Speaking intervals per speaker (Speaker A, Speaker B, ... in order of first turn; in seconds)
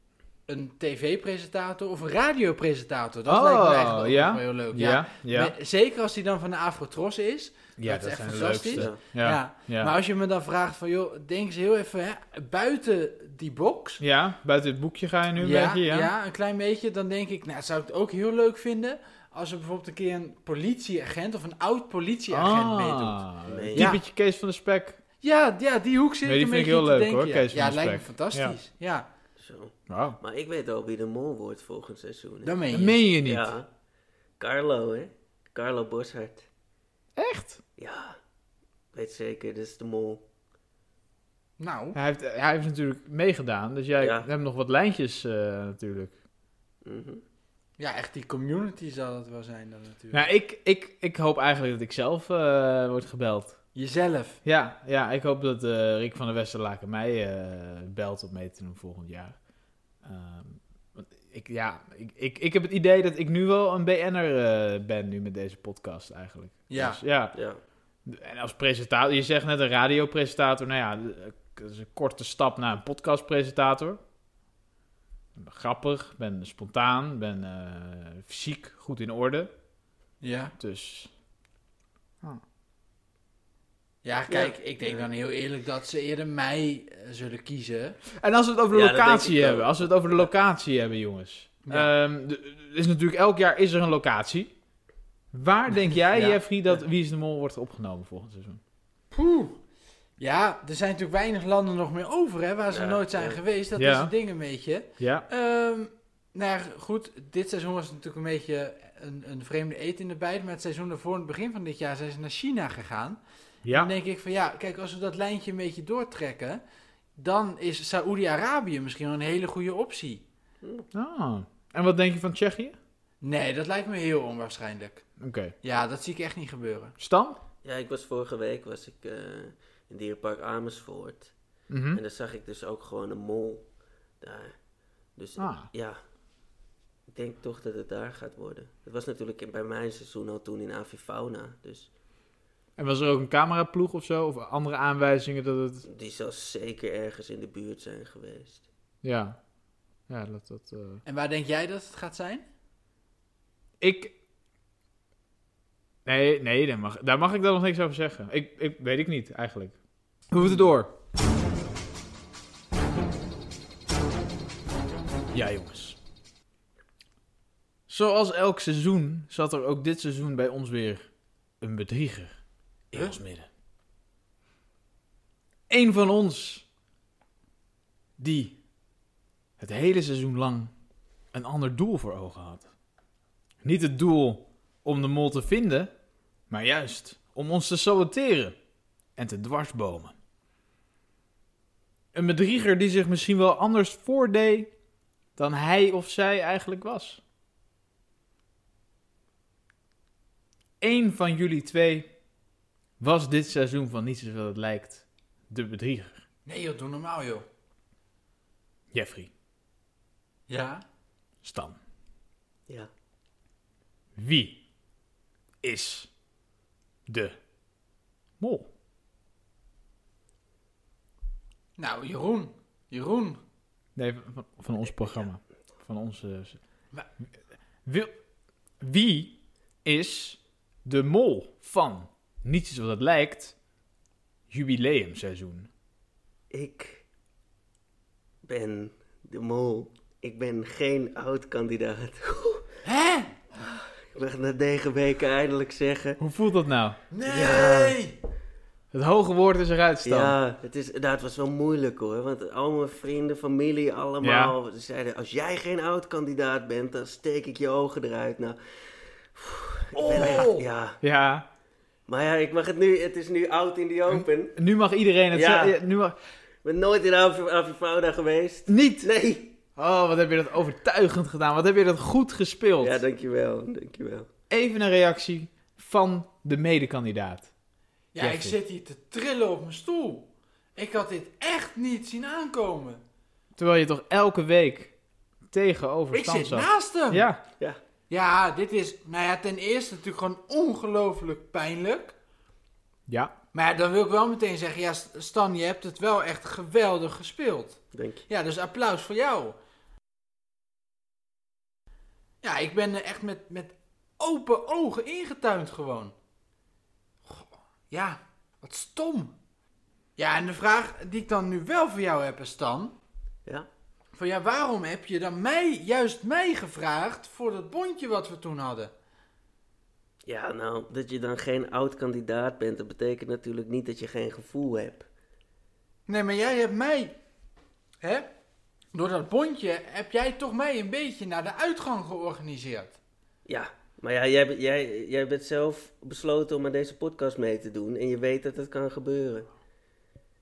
Speaker A: 0.5-14.0, 15.4-24.0, 25.2-29.1, 32.4-33.0, 41.6-42.0, 47.8-50.3, 53.8-54.4, 66.7-67.0, 80.2-80.5, 84.0-88.0, 91.7-91.9, 96.1-96.8, 99.1-99.6, 100.2-113.2, 113.7-116.6, 117.2-120.2, 123.2-125.0, 125.6-127.0, 151.1-152.5, 206.5-207.5, 210.5-210.8, 221.8-223.4, 242.8-243.4, 247.1-248.2, 259.9-260.6, 278.1-283.0, 286.1-287.3, 288.1-292.1, 293.5-299.6, 302.4-306.1, 307.2-309.4, 310.2-312.9, 314.1-318.9, 326.1-327.2, 328.0-328.3, 328.9-333.0
Speaker B: 3.3-5.5, 7.8-9.9, 14.0-16.1, 22.3-25.0, 26.2-28.6, 29.9-30.2, 32.7-33.5, 37.2-37.6, 41.9-46.2, 50.1-53.6, 54.4-59.4, 60.0-67.4, 68.1-74.0, 75.3-79.5, 80.6-81.1, 88.2-94.5, 95.3-98.6, 103.8-104.1, 105.0-105.3, 113.7-113.9, 120.9-122.8, 125.2-125.5, 127.0-127.4, 131.7-132.0, 135.4-135.7, 142.8-145.9, 149.0-149.4, 150.1-151.0, 153.8-154.2, 156.1-159.8, 160.3-160.9, 165.3-166.0, 167.9-171.1, 171.6-172.4, 172.9-173.5, 175.7-176.7, 178.2-178.6, 179.6-180.7, 181.3-182.7, 183.6-185.9, 186.5-188.6, 189.2-190.2, 192.1-194.7, 195.4-197.2, 200.8-202.1, 203.0-206.2, 208.9-209.3, 211.4-211.8, 214.2-214.6, 215.6-216.1, 217.1-217.3, 218.4-218.7, 224.0-226.6, 228.8-233.6, 234.5-235.7, 246.2-247.0, 248.9-250.4, 254.2-254.6, 260.1-260.5, 261.0-261.5, 264.1-266.2, 268.7-269.1, 269.8-273.0, 274.5-277.5, 278.2-278.6, 283.6-284.9, 285.5-287.4, 293.1-293.3
Speaker C: 8.7-9.0, 23.5-24.0, 29.4-32.5, 33.2-33.7, 34.4-36.5, 37.8-38.2, 38.9-40.2, 44.0-44.3, 46.9-47.2, 67.3-67.6, 84.3-85.0, 88.7-90.3, 102.7-103.4, 120.6-120.9, 127.6-131.3, 131.9-133.7, 134.2-134.5, 135.2-136.0, 137.1-141.9, 145.9-148.7, 236.5-237.0, 238.4-242.7, 243.6-246.2, 247.3-248.0, 250.1-258.6, 259.3-261.0, 262.1-264.6, 265.3-265.8, 266.6-269.5, 272.8-274.3, 297.9-298.3, 320.3-325.1, 333.5-339.5